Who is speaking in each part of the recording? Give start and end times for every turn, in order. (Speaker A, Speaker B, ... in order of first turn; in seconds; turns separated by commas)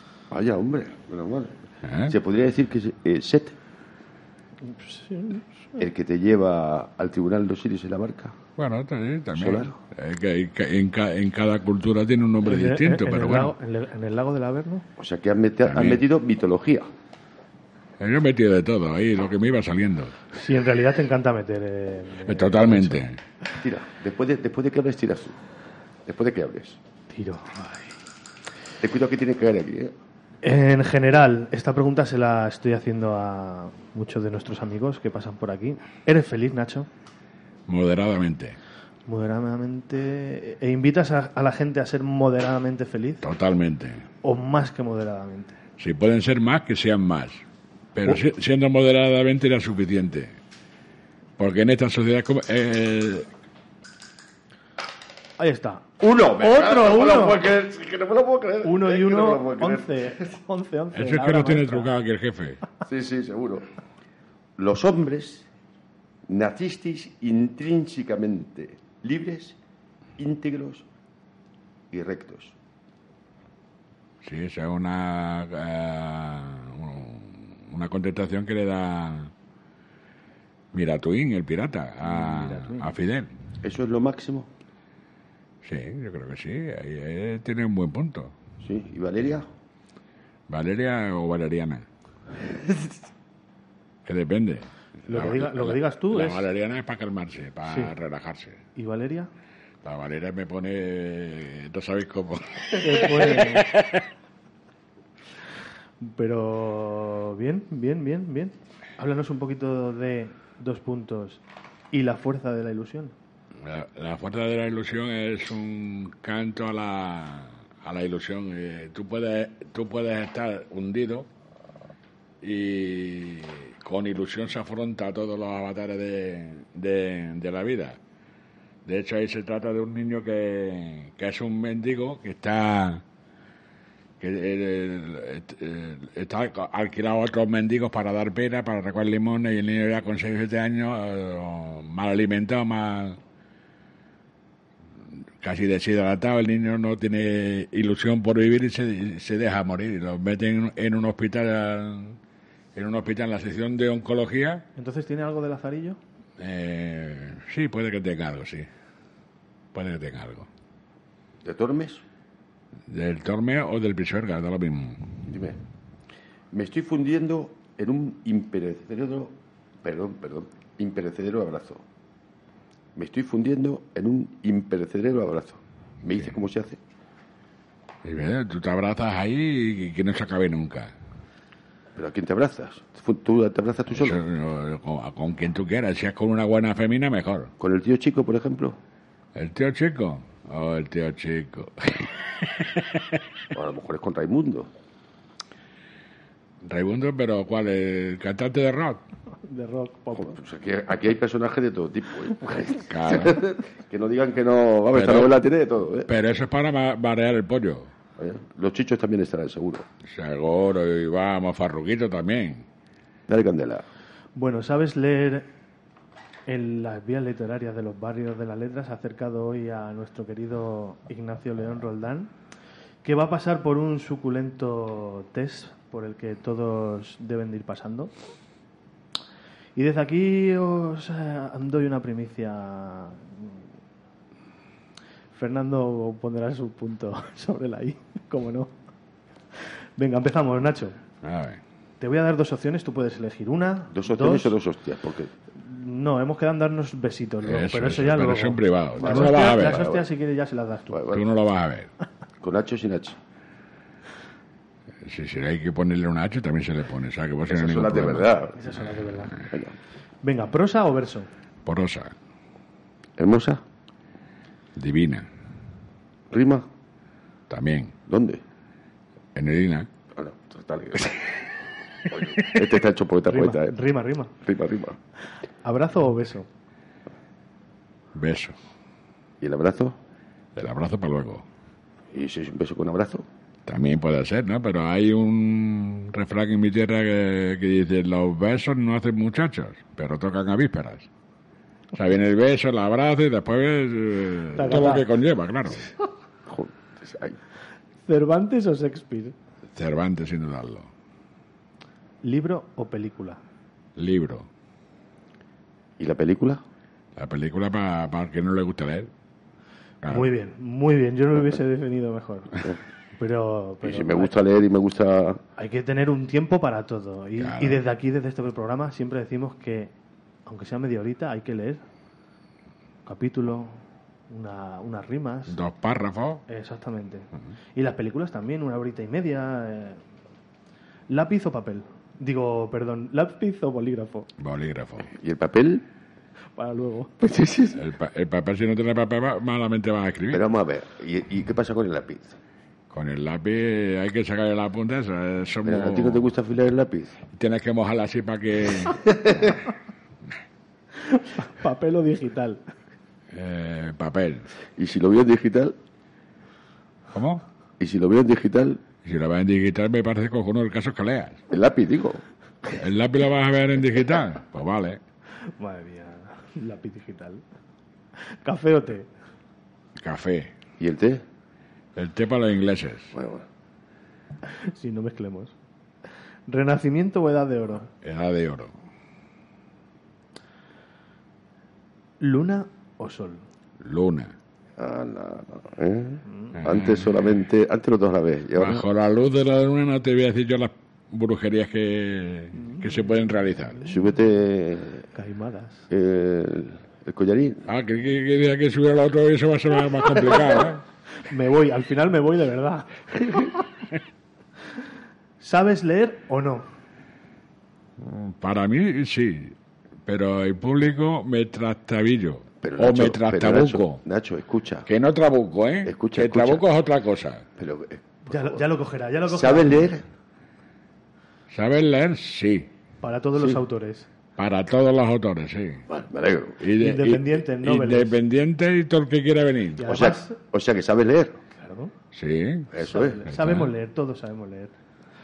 Speaker A: 0.3-3.6, Speaker B: 1.8-2.1, Speaker C: 4.6-5.8, Speaker A: 5.8-8.4, Speaker B: 8.6-13.5, Speaker A: 9.3-9.8, Speaker C: 12.4-14.9, Speaker A: 15.0-16.9, Speaker B: 15.7-16.0, Speaker B: 18.0-20.2, Speaker C: 20.3-23.0, Speaker B: 22.3-23.2, Speaker A: 23.6-25.4, Speaker A: 26.1-26.8, Speaker C: 27.1-27.9, Speaker A: 28.8-29.9, Speaker C: 30.4-36.9, Speaker B: 37.7-38.6, Speaker C: 39.1-43.2, Speaker B: 43.2-44.1, Speaker C: 44.2-45.6, Speaker B: 45.8-47.4, Speaker B: 47.9-50.4, Speaker B: 51.4-53.3, Speaker C: 55.4-57.5, Speaker A: 56.0-60.1, Speaker C: 58.6-61.9, Speaker B: 61.0-62.6, Speaker A: 62.9-63.6, Speaker A: 64.6-65.5, Speaker A: 66.3-69.6, Speaker A: 70.2-70.9, Speaker A: 71.9-72.6, Speaker B: 74.2-79.3, Speaker B: 80.7-83.3, Speaker C: 82.3-82.8, Speaker A: 83.6-84.5, Speaker B: 85.6-88.3, Speaker A: 88.6-89.5, Speaker B: 90.5-91.8, Speaker B: 94.1-98.6, Speaker C: 95.1-96.5, Speaker C: 97.7-97.9, Speaker C: 98.8-99.3, Speaker B: 99.8-104.0, Speaker C: 102.8-103.7, Speaker C: 106.0-113.1, Speaker B: 113.6-121.3, Speaker B: 122.4-128.0, Speaker B: 128.8-133.0, Speaker B: 134.2-143.2, Speaker B: 145.4-152.2, Speaker B: 152.8-154.7, Speaker C: 154.8-156.0, Speaker B: 156.4-158.7, Speaker B: 159.7-160.5, Speaker A: 161.4-162.0, Speaker B: 162.9-165.2, Speaker A: 165.3-165.6, Speaker A: 166.5-171.8, Speaker A: 173.0-176.8, Speaker B: 178.0-180.9, Speaker A: 181.9-184.2, Speaker B: 183.9-187.5, Speaker A: 187.6-188.8, Speaker B: 189.3-193.2, Speaker A: 193.5-194.7, Speaker B: 196.6-199.0, Speaker C: 199.4-200.4, Speaker A: 200.1-206.1, Speaker B: 202.9-203.4, Speaker B: 204.9-205.3, Speaker B: 206.1-207.9, Speaker A: 208.2-209.9, Speaker B: 210.0-212.7, Speaker A: 213.3-213.8, Speaker C: 214.4-215.5, Speaker C: 216.5-222.3, Speaker C: 223.0-228.1, Speaker C: 229.8-233.6, Speaker C: 235.3-238.7, Speaker C: 240.0-241.0, Speaker B: 241.2-241.6, Speaker C: 242.0-244.6, Speaker A: 243.9-245.3, Speaker C: 245.5-251.1, Speaker B: 247.4-249.9, Speaker A: 249.0-250.0, Speaker A: 250.9-251.2, Speaker B: 251.1-251.9, Speaker A: 252.4-253.2, Speaker B: 255.0-258.4, Speaker A: 257.5-258.6, Speaker C: 258.6-259.4, Speaker C: 260.2-261.3, Speaker B: 261.6-262.1, Speaker A: 263.2-263.6, Speaker B: 264.8-265.3, Speaker A: 266.3-266.7, Speaker B: 267.5-267.9, Speaker A: 268.1-268.4, Speaker B: 269.4-269.9, Speaker A: 270.1-271.5, Speaker A: 272.1-273.8, Speaker C: 273.3-274.3, Speaker A: 274.4-275.0, Speaker C: 275.6-276.5, Speaker B: 278.1-278.6, Speaker A: 279.4-280.0, Speaker B: 280.6-281.4, Speaker A: 282.1-283.3, Speaker B: 283.7-291.1, Speaker B: 291.9-295.9, Speaker C: 294.6-295.1, Speaker A: 296.5-297.4, Speaker C: 298.1-299.4, Speaker B: 299.8-300.9, Speaker C: 302.2-303.4, Speaker B: 304.0-304.5, Speaker A: 306.0-306.6, Speaker B: 307.2-309.1, Speaker B: 310.0-310.3, Speaker C: 310.1-312.5, Speaker C: 313.2-314.4, Speaker A: 313.8-315.4, Speaker C: 315.6-319.9, Speaker B: 317.4-317.8, Speaker C: 320.5-321.8, Speaker C: 323.1-325.6, Speaker B: 325.5-326.4, Speaker C: 326.5-330.0, Speaker C: 331.1-334.3, Speaker B: 334.4-335.1, Speaker A: 335.1-335.9, Speaker C: 336.6-337.1, Speaker A: 337.2-337.8, Speaker B: 337.8-340.5, Speaker A: 340.3-342.4, Speaker B: 342.9-346.3, Speaker A: 345.6-347.2, Speaker B: 347.3-349.0, Speaker A: 348.8-349.6, Speaker C: 351.0-352.6, Speaker B: 353.3-354.5, Speaker A: 354.8-355.8, Speaker B: 357.1-357.4, Speaker A: 357.8-358.8, Speaker B: 359.1-361.4, Speaker A: 361.5-362.2, Speaker B: 362.7-365.0, Speaker C: 365.6-367.4, Speaker C: 368.2-369.1, Speaker B: 370.0-370.5, Speaker A: 370.8-371.2, Speaker B: 372.0-373.1, Speaker A: 373.1-373.5, Speaker C: 374.5-375.5, Speaker C: 376.5-377.9, Speaker B: 378.0-378.7, Speaker C: 382.2-383.5, Speaker B: 383.8-384.4, Speaker A: 384.8-388.9, Speaker B: 386.6-387.3, Speaker B: 388.6-393.8, Speaker C: 392.6-392.9, Speaker C: 393.7-394.0, Speaker A: 393.8-395.1, Speaker C: 395.1-395.9, Speaker A: 395.9-397.7, Speaker B: 397.7-400.8, Speaker C: 401.2-403.6, Speaker C: 405.4-406.7, Speaker B: 408.0-409.6, Speaker B: 410.1-414.0, Speaker A: 412.6-414.9, Speaker B: 414.9-417.4, Speaker A: 415.8-416.6, Speaker A: 417.6-418.7, Speaker C: 418.3-419.9, Speaker A: 419.3-420.1, Speaker B: 421.5-422.7, Speaker C: 423.0-424.1, Speaker B: 424.4-425.9, Speaker A: 425.9-426.6, Speaker B: 426.6-429.9, Speaker C: 426.8-428.2, Speaker C: 429.8-430.4, Speaker A: 429.8-431.4, Speaker C: 431.5-431.9, Speaker B: 432.1-432.7, Speaker A: 432.7-433.2, Speaker C: 432.8-434.7, Speaker B: 433.3-433.7